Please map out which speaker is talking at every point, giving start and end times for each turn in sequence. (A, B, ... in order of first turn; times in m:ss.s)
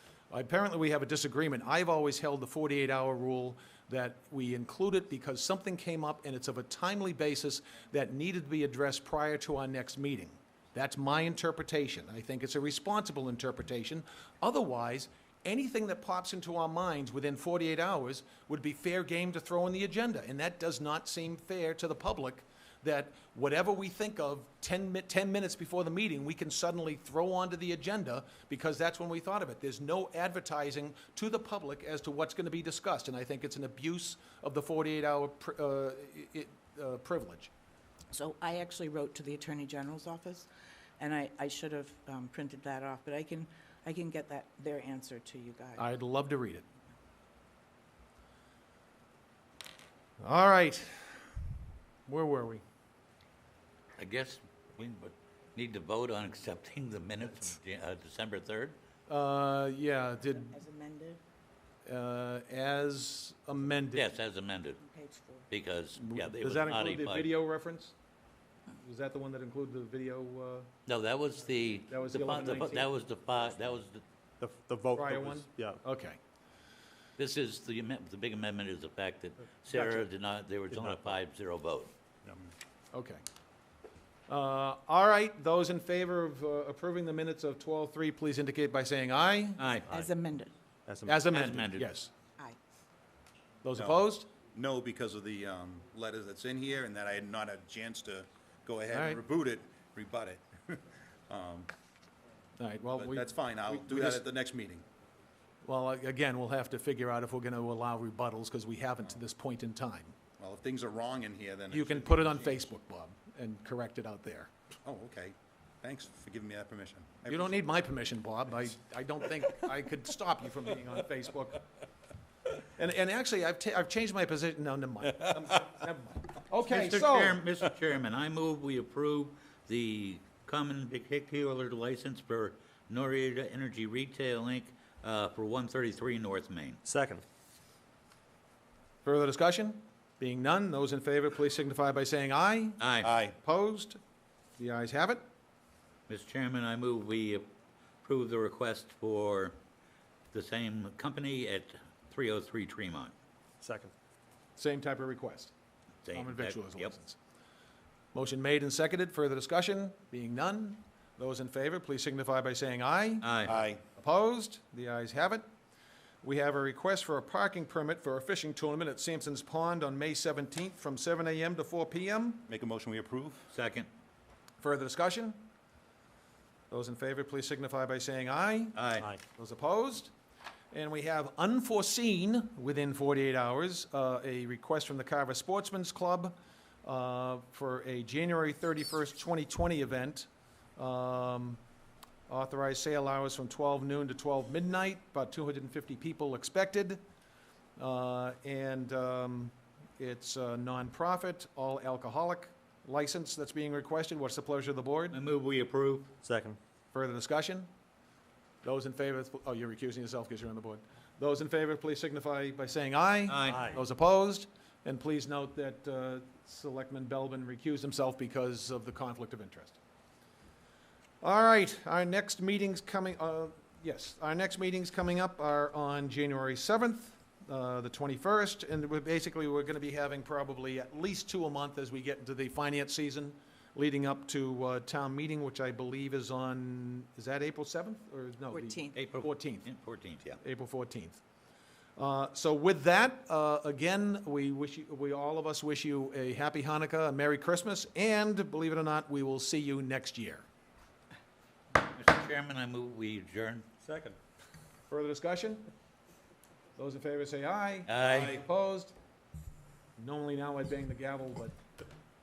0:00.3-0:37.5 A
0:38.1-0:40.5 B
0:41.0-0:45.9 B
0:45.8-0:46.6 A
0:50.2-0:51.2 A
0:52.1-0:52.6 A
0:54.0-0:58.8 C
0:59.1-1:00.6 A
1:00.3-1:01.2 B
1:01.9-1:04.1 A
1:03.9-1:04.8 C
1:04.8-1:05.5 B
1:05.5-1:07.3 C
1:06.0-1:08.0 A
1:08.8-1:10.7 A
1:10.9-1:14.0 C
1:11.9-1:12.9 A
1:14.4-1:15.8 D
1:14.9-1:16.2 A
1:17.2-1:21.9 C
1:20.7-1:21.1 D
1:22.9-1:23.2 A
1:24.3-1:29.6 A
1:29.6-1:29.9 C
1:29.9-1:30.5 B
1:30.9-1:31.3 D
1:31.1-1:32.1 A
1:31.3-1:31.9 C
1:33.6-1:34.3 A
1:34.5-1:41.7 E
1:38.9-1:39.2 A
1:42.6-1:44.2 A
1:43.0-1:44.8 E
1:45.6-1:50.2 A
1:50.4-1:52.6 E
1:51.7-1:54.5 A
1:54.8-1:57.5 E
1:57.3-2:01.7 A
2:02.6-2:07.4 A
2:06.7-2:16.8 C
2:16.8-2:17.2 D
2:19.0-2:22.8 A
2:22.8-2:23.1 C
2:23.0-2:23.4 E
2:23.4-2:24.0 A
2:24.6-2:25.2 A
2:26.1-2:27.5 C
2:28.0-2:29.6 C
2:30.3-2:33.1 C
2:33.6-2:33.9 D
2:34.6-2:35.5 A
2:36.0-2:36.9 C
2:36.1-2:37.2 A
2:38.1-2:43.3 A
2:43.2-2:43.5 C
2:43.5-2:43.8 E
2:43.9-2:45.4 A
2:46.2-2:52.5 A
2:52.5-2:53.5 E
2:53.5-2:53.9 C
2:54.6-2:55.4 A
2:56.7-2:58.8 A
2:58.8-2:59.1 C
2:59.3-3:00.1 A
3:00.7-3:11.6 A
3:12.3-3:17.0 A
3:17.8-3:25.2 A
3:25.1-3:26.1 C
3:26.2-3:26.6 D
3:26.9-3:27.7 A
3:28.6-3:39.8 A
3:33.3-3:33.7 C
3:33.5-3:33.8 D
3:41.2-3:59.7 A
3:58.5-3:59.0 B
3:58.9-4:00.4 C
4:00.4-4:01.2 A
4:02.0-4:10.4 A
4:11.9-4:13.7 C
4:13.8-4:14.2 D
4:14.9-4:15.7 A
4:16.8-4:18.9 A
4:17.9-4:18.4 C
4:18.1-4:18.4 E
4:20.0-4:21.6 A